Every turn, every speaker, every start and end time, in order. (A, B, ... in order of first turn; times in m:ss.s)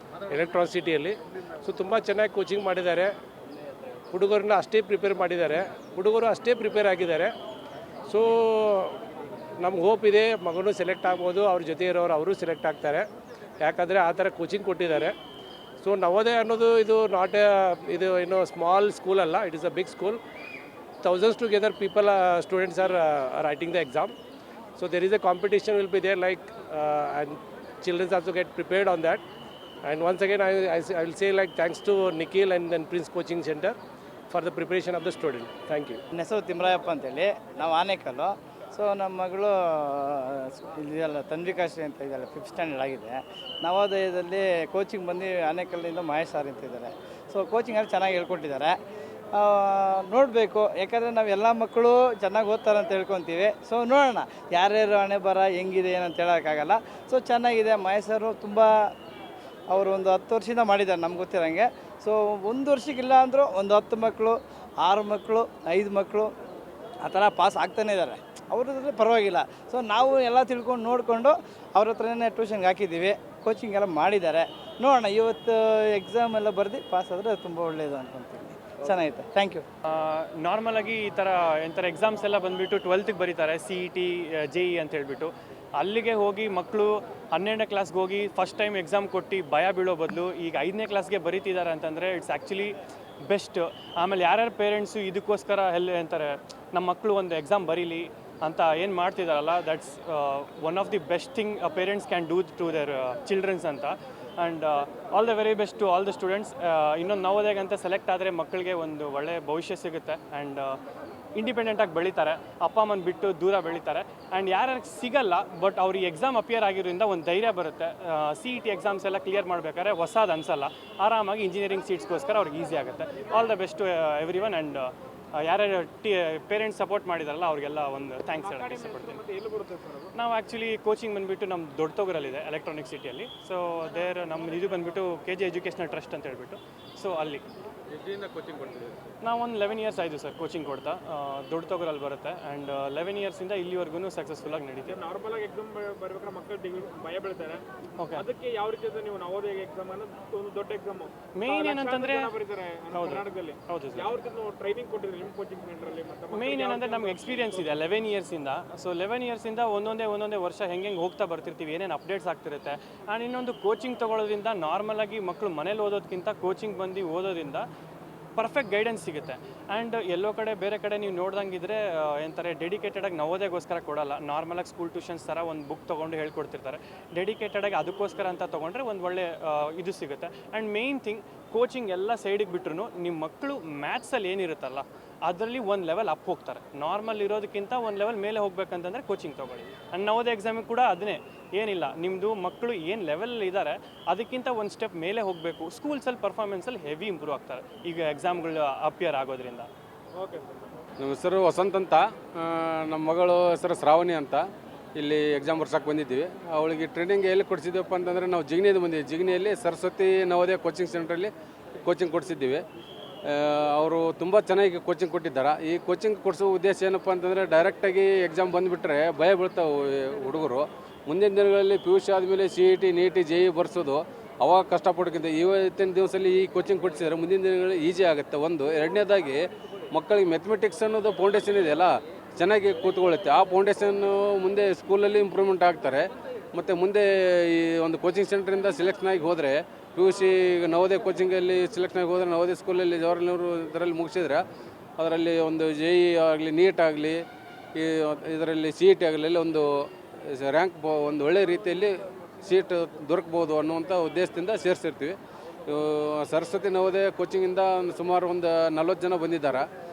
0:00.3-0:03.1 A
0:04.1-0:07.3 A
0:08.1-0:09.0 A
0:09.6-0:13.0 A
0:13.6-0:15.1 A
0:15.8-0:20.2 A
0:21.0-0:24.1 A
0:24.8-0:29.2 A
0:29.8-0:33.8 A
0:34.3-0:36.0 A
0:36.1-0:48.8 B
0:49.3-0:58.9 B
0:59.7-1:06.3 B
1:07.0-1:19.6 B
1:19.8-1:50.8 C
1:51.3-2:09.2 C
2:08.5-2:10.1 D
2:10.1-2:17.4 C
2:19.2-2:25.0 C
2:24.9-2:27.6 D
2:28.0-2:28.2 C
2:28.2-2:37.5 D
2:31.3-2:32.3 C
2:32.9-2:34.1 C
2:36.3-2:47.6 C
2:48.4-3:19.7 C
3:20.2-3:20.6 D
3:21.0-3:24.4 E
3:25.0-3:31.3 E
3:31.8-3:32.6 E
3:33.2-3:49.4 E
3:49.9-4:04.4 E
4:05.0-4:07.2 E
4:07.8-4:09.6 E
4:10.2-4:15.2 E
4:15.7-4:19.6 E